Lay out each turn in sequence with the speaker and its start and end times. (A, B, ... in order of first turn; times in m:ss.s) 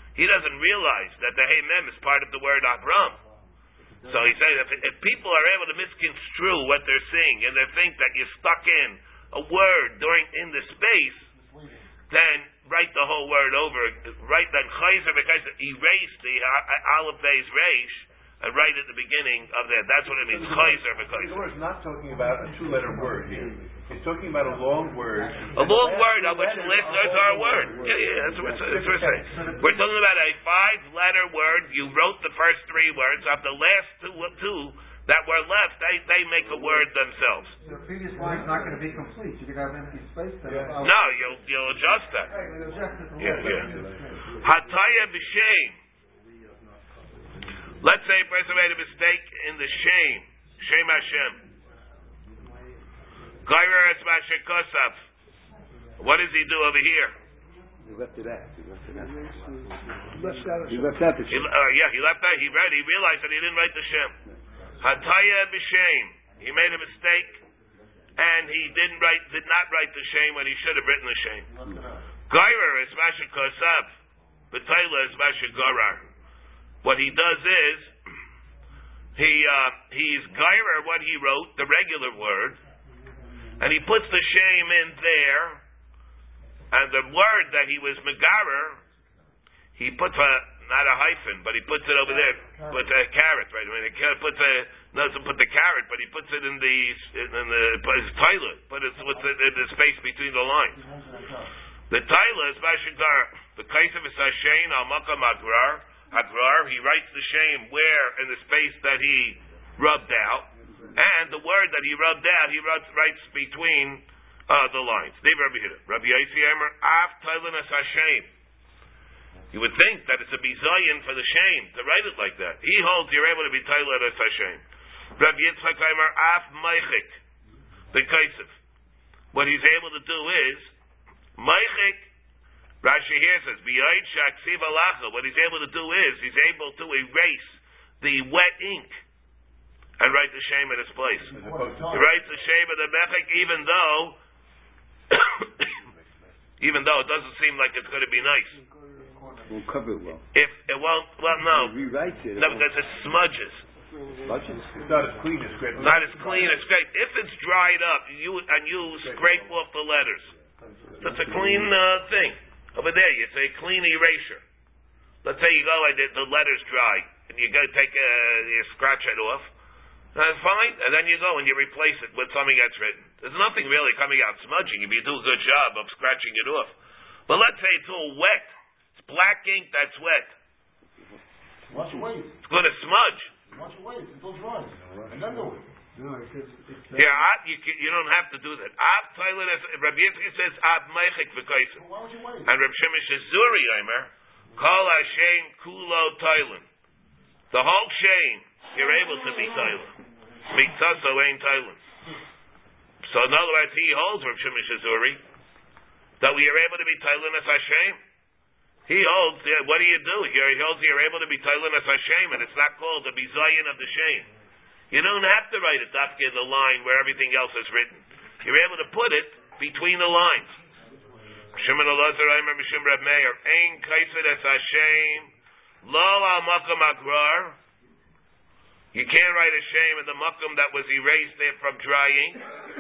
0:00.2-0:03.2 A
0:04.1-0:11.3 A
0:11.3-0:11.9 B
0:12.1-0:21.4 A
0:20.3-0:29.5 C
0:25.5-0:37.6 A
0:27.2-0:27.6 B
0:29.2-0:29.8 D
0:37.6-0:41.0 D
0:40.5-0:40.8 C
0:40.8-0:42.3 A
0:42.3-0:44.2 D
0:43.2-0:43.7 A
0:43.2-0:44.1 C
0:44.4-0:45.8 A
0:47.8-0:51.4 A
0:53.4-0:55.0 A
0:56.0-0:57.2 A
0:57.8-0:59.7 E
0:58.9-1:01.1 F
1:00.6-1:01.5 E
1:01.3-1:04.2 A
1:04.8-1:07.4 A
1:08.2-1:11.5 A
1:11.5-1:12.1 B
1:12.3-1:13.9 A
1:14.5-1:16.0 A
1:16.8-1:17.9 A
1:19.2-1:22.6 A
1:23.6-1:25.6 A
1:26.7-1:28.8 A
1:29.8-1:40.8 A
1:32.1-1:32.9 B
1:40.7-1:41.5 B
1:41.9-1:58.3 A
1:59.5-2:04.6 A
2:05.2-2:07.2 A
2:07.9-2:08.6 A
2:09.3-2:10.7 A
2:11.4-2:12.1 A
2:12.8-2:19.0 A
2:20.0-2:21.3 A
2:21.3-2:22.1 C
2:21.3-2:22.2 B
2:21.9-2:24.2 A
2:25.1-2:25.5 A
2:26.6-2:28.6 A
2:28.5-2:29.3 F
2:29.5-2:30.2 E
2:30.3-2:31.8 A
2:31.5-2:32.7 E
2:32.4-2:33.6 A
2:34.2-2:34.8 E
2:34.7-2:36.6 C
2:35.8-2:40.4 A
2:39.0-2:39.5 C
2:41.0-2:44.4 A
2:41.0-2:41.7 E
2:45.2-2:49.5 A
2:50.2-2:56.7 A
2:57.3-3:00.3 A
3:01.7-3:02.4 B
3:02.5-3:03.3 A
3:03.5-3:05.7 B
3:04.8-3:05.5 C
3:06.0-3:07.3 D
3:06.9-3:11.8 A
3:11.8-3:12.5 B
3:12.4-3:16.6 A
3:17.5-3:19.9 A
3:20.5-3:21.8 A
3:23.0-3:25.2 A
3:26.2-3:28.0 A
3:28.9-3:34.3 A
3:34.9-3:40.5 A
3:41.6-3:45.3 A
3:45.8-3:47.6 A
3:48.9-3:52.4 A